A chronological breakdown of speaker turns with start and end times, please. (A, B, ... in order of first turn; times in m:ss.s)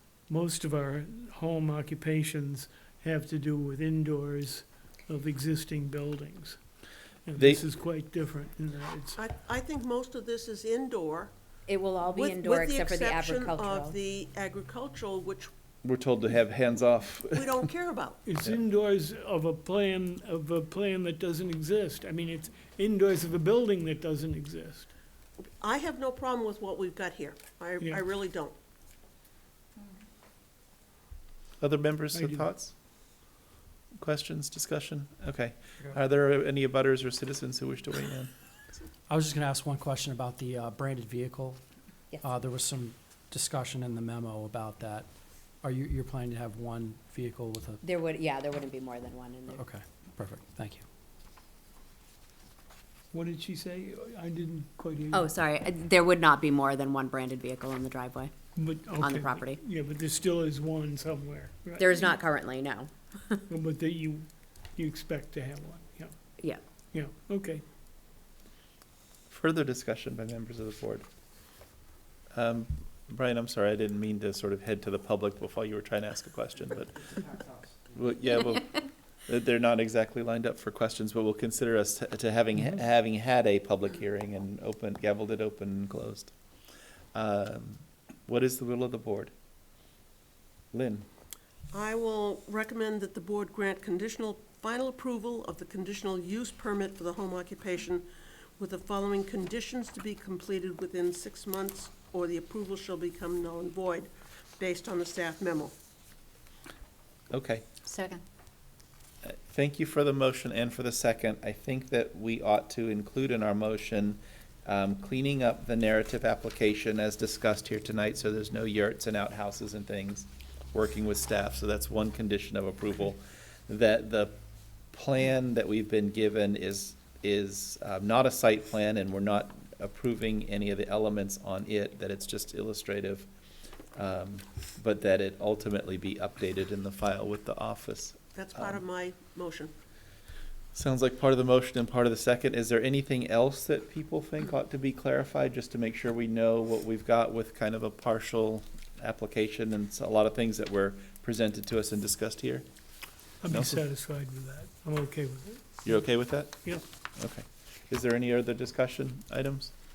0:00.3-0:06.6 A
0:07.3-0:09.2 A
0:07.4-0:07.6 B
0:09.2-0:11.3 C
0:11.7-0:14.0 D
0:12.1-0:15.5 C
0:15.8-0:17.7 B
0:17.3-0:18.2 C
0:18.2-0:24.9 A
0:25.6-0:28.6 C
0:31.6-0:32.7 B
0:32.1-0:32.5 A
0:34.0-0:38.3 B
0:39.1-0:41.6 E
0:42.2-0:45.1 E
0:45.6-0:47.8 E
0:47.8-0:49.6 D
0:49.5-0:50.8 E
0:53.1-0:55.3 A
0:55.1-0:58.3 D
0:58.6-1:02.1 A
0:59.0-0:59.6 D
1:01.8-1:03.4 D
1:03.5-1:06.2 A
1:06.9-1:07.6 A
1:09.3-1:11.0 B
1:12.3-1:26.3 B
1:27.2-1:29.3 B
1:30.7-1:31.1 B
1:31.7-1:38.1 C
1:38.6-1:45.7 C
1:47.3-1:47.7 B
1:49.2-2:04.4 B
2:04.9-2:13.3 B
2:14.0-2:18.8 B
2:18.4-2:19.7 C
2:20.7-2:32.7 B
2:33.4-2:36.0 A
2:33.5-2:33.8 B
2:35.8-2:39.7 B